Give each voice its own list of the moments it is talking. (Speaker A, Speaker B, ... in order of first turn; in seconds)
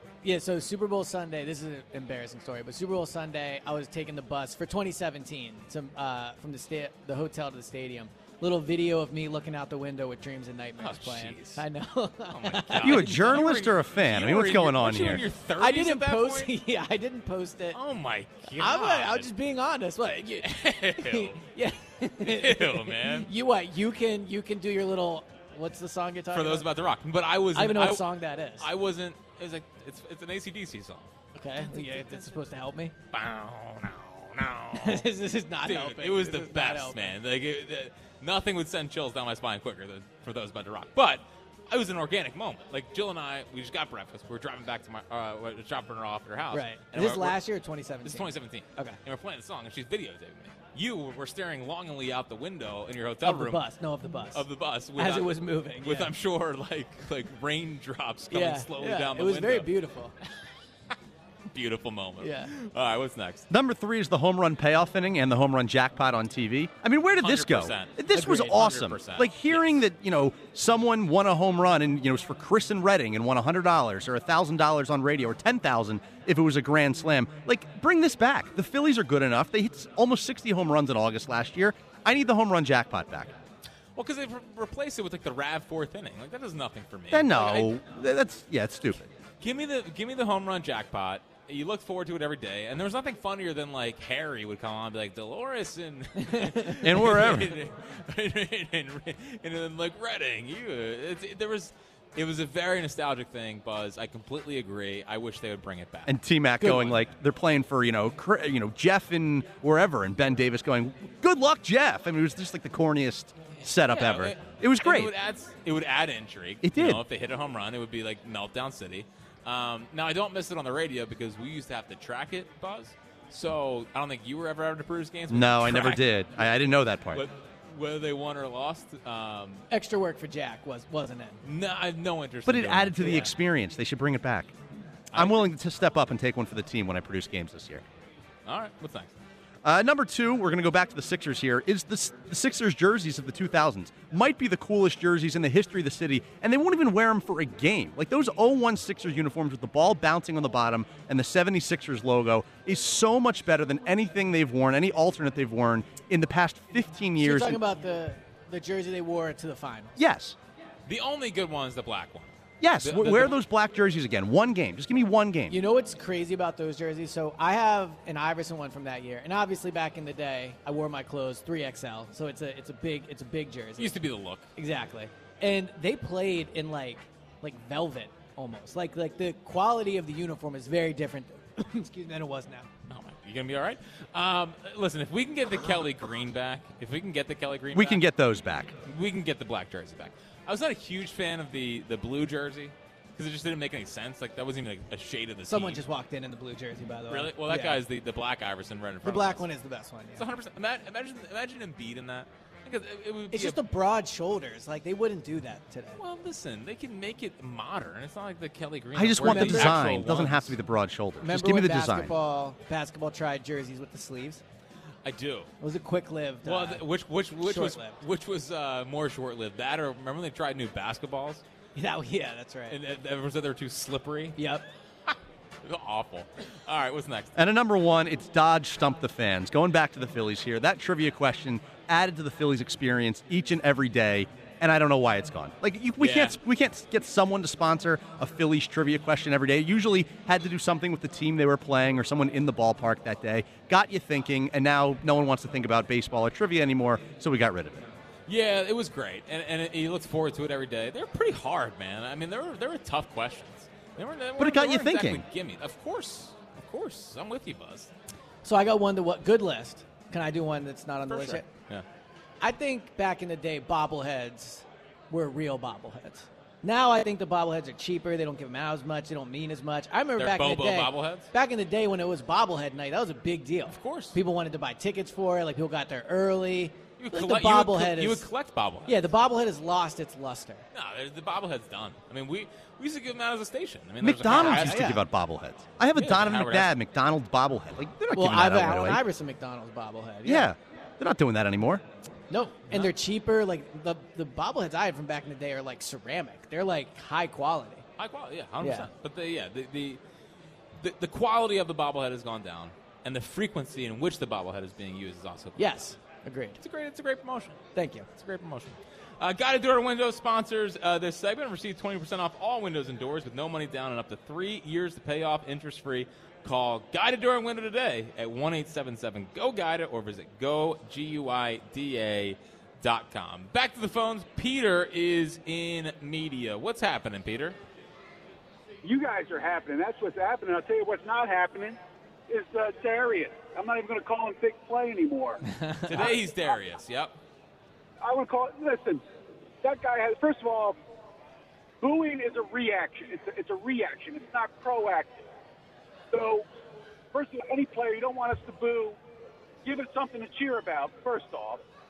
Speaker A: 0.2-13.4, 15.6-17.8, 18.6-26.7, 27.5-28.7, 31.4-32.9, 34.8-37.1, 46.5-49.0, 53.2-56.1, 58.3-60.1, 62.2-62.5, 96.2-96.7, 106.6-106.9, 129.7-131.4, 157.2-160.0, 165.5-174.0, 174.6-182.7, 195.5-197.8, 199.0-200.3, 203.3-206.0, 209.2-210.0, 211.2-214.4, 215.6-216.8, 217.4-218.0, 221.8-222.8, 224.4-224.6, 258.4-261.5, 262.4-278.3, 278.9-280.6, 284.2-285.0, 288.1-290.5, 292.3-297.9, 298.6-298.9, 305.6-306.6, 307.8-308.1, 335.6-335.9
Speaker B: 10.8-11.6, 12.3-16.5, 17.7-19.3, 20.4-21.4, 22.2-23.3, 26.3-31.1, 31.7-32.1, 33.1-35.1, 35.6-47.4, 48.0-53.6, 54.3-59.7, 61.5-63.5, 67.2-69.7, 84.0-87.8, 89.4-107.0, 113.6-126.0, 127.1-129.7, 131.4-133.3, 135.1-135.5, 138.5-139.1, 160.9-163.4, 173.8-174.5, 182.9-188.0, 188.9-195.8, 197.1-199.5, 200.2-203.6, 206.0-210.5, 215.1-215.5, 216.4-221.4, 222.7-224.4, 225.1-227.3, 236.0-236.4, 248.3-257.9, 261.1-261.9, 270.2-271.3, 273.7-274.2, 277.0-279.0, 280.7-284.9, 285.9-286.7, 298.0-300.0, 300.8-305.8, 306.6-307.6, 308.1-327.6, 335.9-337.1
Speaker C: 12.8-15.2, 63.5-83.3, 87.1-89.1, 96.8-97.6, 106.1-115.1, 116.6-117.0, 125.3-127.2, 132.5-134.6, 135.1-137.8, 139.6-157.6, 160.0-160.4, 162.6-165.6, 187.7-188.7, 208.9-212.1, 227.4-247.9, 254.4-255.2, 284.0-289.0, 290.2-291.8
Speaker D: 328.8-335.4, 336.0-336.5, 338.0-339.0, 339.6-340.8, 341.8-345.2, 346.1-346.5, 347.1-349.0, 349.6-351.6